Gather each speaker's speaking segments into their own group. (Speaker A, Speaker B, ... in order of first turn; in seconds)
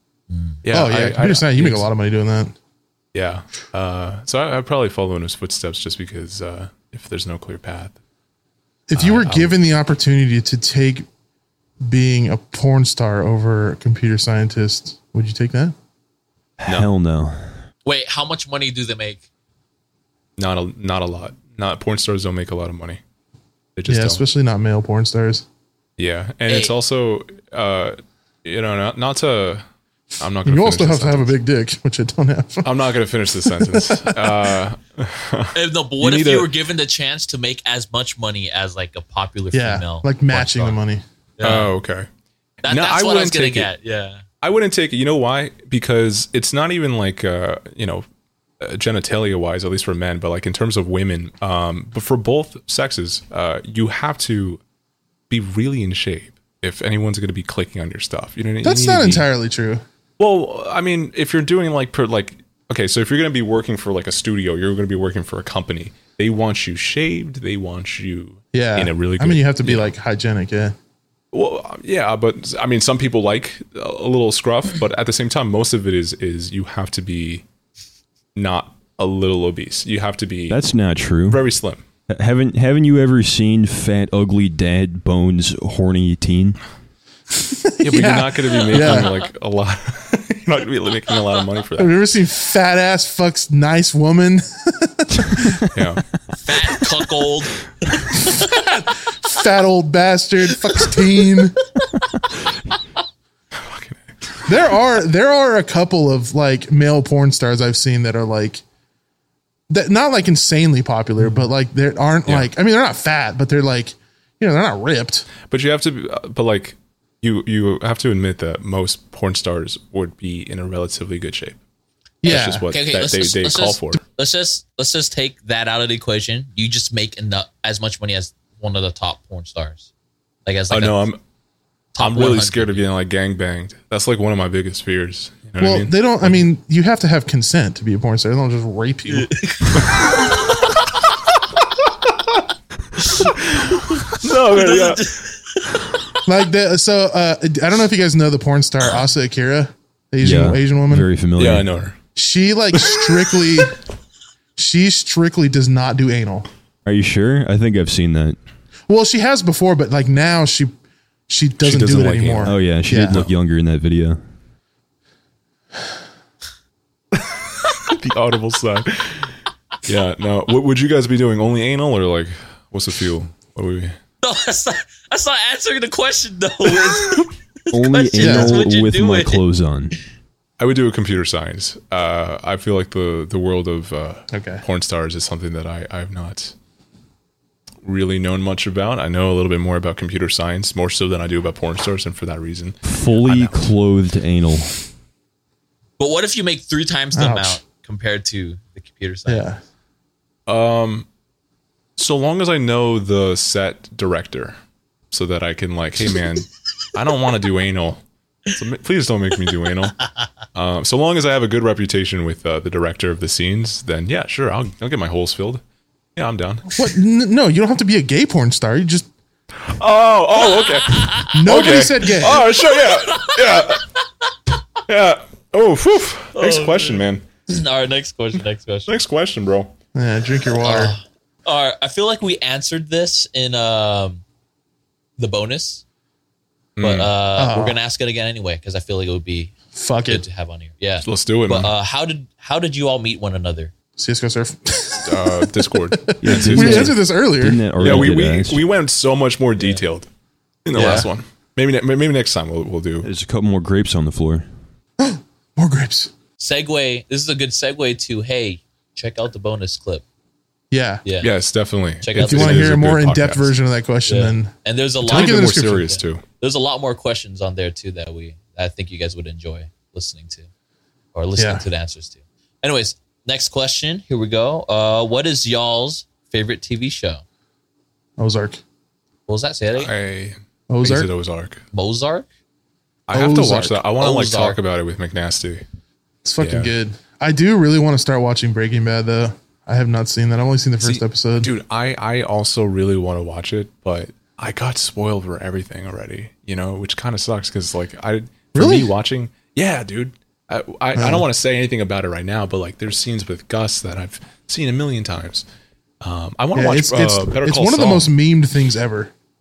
Speaker A: 0.3-0.6, 17.8-19.2, 26.5-26.7, 35.5-40.8, 41.4-41.7, 42.6-44.2, 88.8-89.1, 96.4-98.4, 122.3-129.9, 130.4-131.1, 131.9-132.8, 139.1-140.1, 143.0-146.0, 174.2-179.4, 196.0-199.5, 220.5-221.6, 222.2-223.9, 226.3-228.9, 230.6-234.2, 235.2-235.8, 236.8-243.7, 250.7-251.1, 256.4-260.0, 261.0-261.3, 262.0-262.7, 264.1-270.5, 271.1-277.2, 279.3-279.9, 281.7-282.3, 283.9-284.6
Speaker B: 0.6-1.9, 3.1-8.0, 9.0-9.5, 20.4-23.0, 23.8-24.2, 26.0-29.6, 30.2-31.3, 32.6-36.5, 41.4-42.1, 42.6-43.7, 44.4-48.0, 48.6-54.6, 55.3-59.3, 60.2-69.9, 71.3-77.4, 78.3-80.6, 81.3-81.8, 87.8-91.9, 95.7-96.0, 103.5-104.5, 112.2-112.5, 115.5-121.6, 122.2-124.0, 130.7-131.2, 132.0-136.5, 141.9-142.4, 143.1-145.1, 151.3-152.0, 152.8-153.3, 161.6-162.6, 167.2-173.9, 180.6-186.5, 187.8-193.7, 200.5-201.1, 202.0-204.6, 205.1-210.0, 210.5-215.6, 216.2-216.7, 219.6-223.9, 224.8-227.3, 228.9-229.7, 236.8-237.1, 241.0-241.7, 245.0-247.0, 247.8-250.1, 250.6-253.1, 261.2-263.5, 265.0-266.2, 279.7-281.6, 283.1-285.6, 286.4-286.7, 290.8-305.4, 306.0-308.1
Speaker C: 0.7-2.5, 8.9-11.1, 11.8-15.7, 23.9-25.4, 30.4-32.7, 33.5-34.5, 39.5-41.0, 58.6-59.8, 68.5-70.8, 87.5-89.1, 91.8-95.6, 98.1-101.7, 104.5-108.6, 109.7-115.3, 122.2-122.7, 135.6-139.3, 146.2-151.1, 152.1-153.8, 154.6-156.5, 158.9-160.7, 161.3-163.2, 178.2-178.6, 184.3-184.6, 197.1-197.6, 199.3-199.6, 216.7-219.1, 221.3-222.4, 229.9-230.9, 237.3-237.8, 239.7-240.2, 244.0-247.6, 250.7-251.1, 255.0-256.1, 260.7-261.0, 262.1-264.5, 265.0-265.9, 271.4-271.6, 278.2-278.6, 280.7-281.1, 283.1-283.8, 286.2-291.5, 298.5-298.9, 300.9-301.2, 306.5-309.1
Speaker D: 16.6-17.6, 80.5-81.4, 82.1-86.6, 150.2-151.7, 156.8-158.4, 162.4-164.2, 177.7-179.9, 192.8-194.8, 246.2-248.6, 253.0-254.5